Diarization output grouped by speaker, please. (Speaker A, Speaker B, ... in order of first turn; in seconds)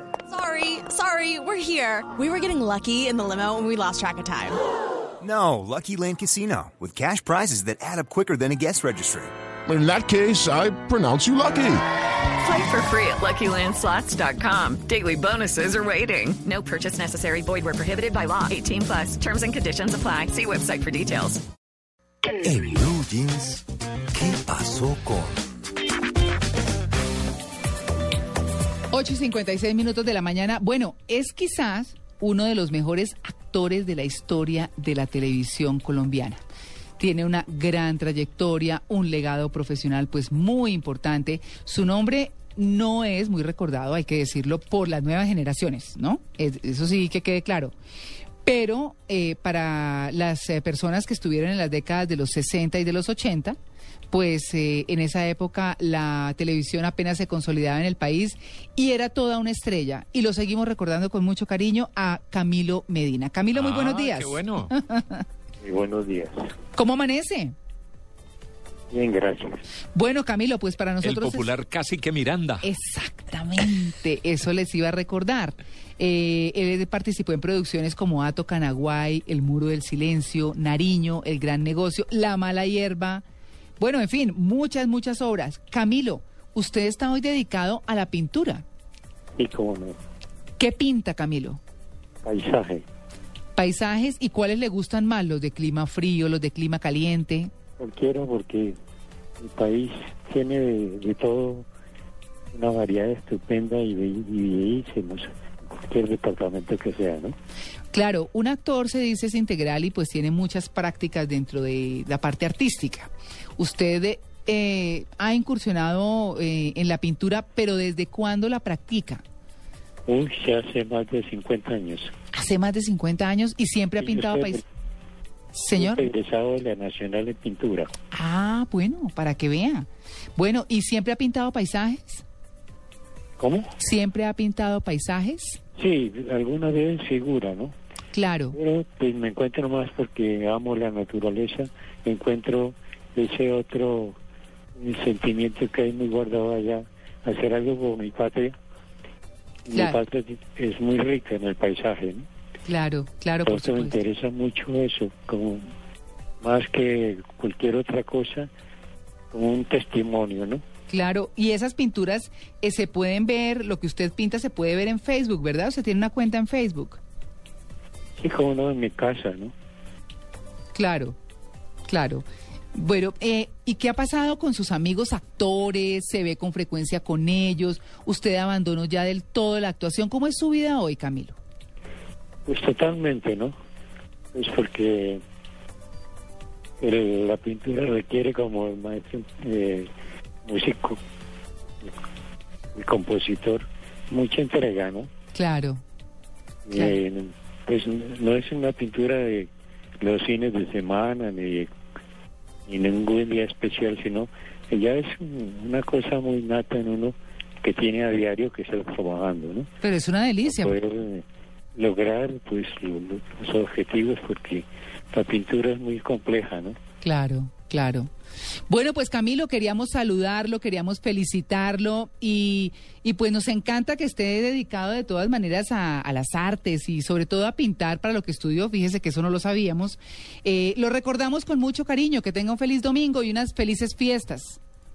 Speaker A: 0.4-4.5
Speaker B: 5.2-9.3
Speaker C: 9.7-11.8
Speaker D: 12.4-21.4
Speaker E: 22.4-23.6, 24.1-25.4
Speaker F: 28.9-36.4, 37.0-47.7, 48.4-53.6, 54.1-65.2, 66.8-67.5, 69.9-71.5, 72.6-83.2, 83.8-88.6, 90.6-91.6, 93.5-97.5, 107.9-119.2, 122.3-124.6, 125.5-126.1, 128.1-132.2, 133.8-135.6, 138.1-138.6, 149.7-150.0, 152.7-154.0, 160.9-167.0, 170.7-171.2, 171.9-181.4, 195.3-195.8, 196.7-197.0, 209.8-210.7, 217.0-218.1, 218.7-234.6
Speaker G: 63.5-64.7, 71.0-72.7
Speaker H: 65.6-66.3, 68.9-69.6, 89.4-90.0, 92.2-92.8, 97.8-98.8, 99.4-101.7, 102.5-107.3, 120.1-122.1, 124.0-124.6, 125.7-127.9, 133.4-133.7, 135.8-137.7, 138.5-144.2, 144.8-148.5, 149.7-152.3, 153.4-155.6, 156.4-158.5, 159.3-160.6, 168.2-169.5, 182.4-183.5, 184.3-185.2, 186.8-189.9, 190.4-191.0, 192.7-195.1, 196.7-199.5, 200.0-201.7, 202.7-209.7, 210.4-211.2, 211.7-216.8